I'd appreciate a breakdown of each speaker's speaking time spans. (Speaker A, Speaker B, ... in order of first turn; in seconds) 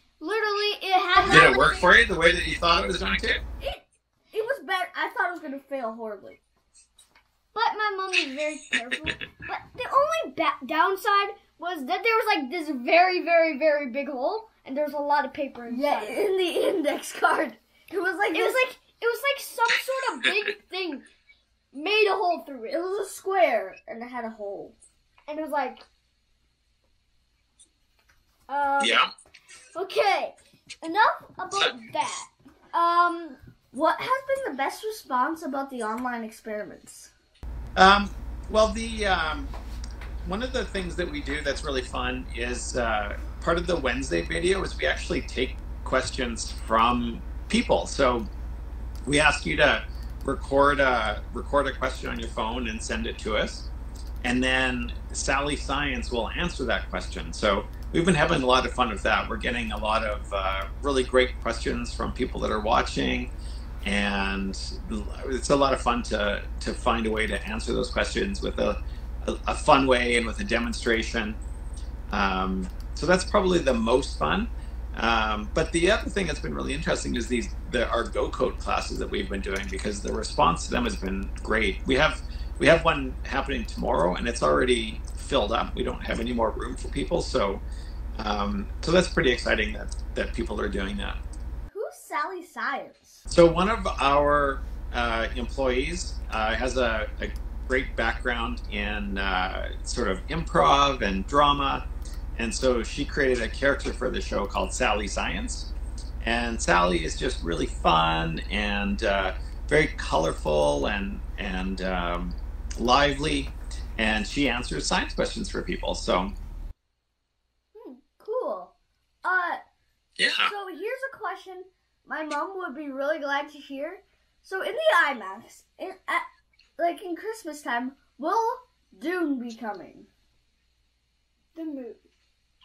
Speaker A: 0.2-1.9, 7.5-16.2, 18.3-21.1, 21.7-22.8, 25.3-25.8, 28.5-29.0, 29.7-33.4, 131.5-132.0
Speaker B: 1.2-3.4, 28.8-29.1, 37.8-39.5, 40.2-48.3, 49.0-53.7, 54.2-63.3, 63.8-71.4, 72.1-87.6, 88.2-91.2, 93.3-116.3, 120.2-120.5
Speaker C: 1.3-1.8, 3.6-6.4, 15.7-18.6, 22.7-24.8, 33.7-37.1, 91.7-93.2, 117.7-119.6, 120.4-126.2, 126.8-130.1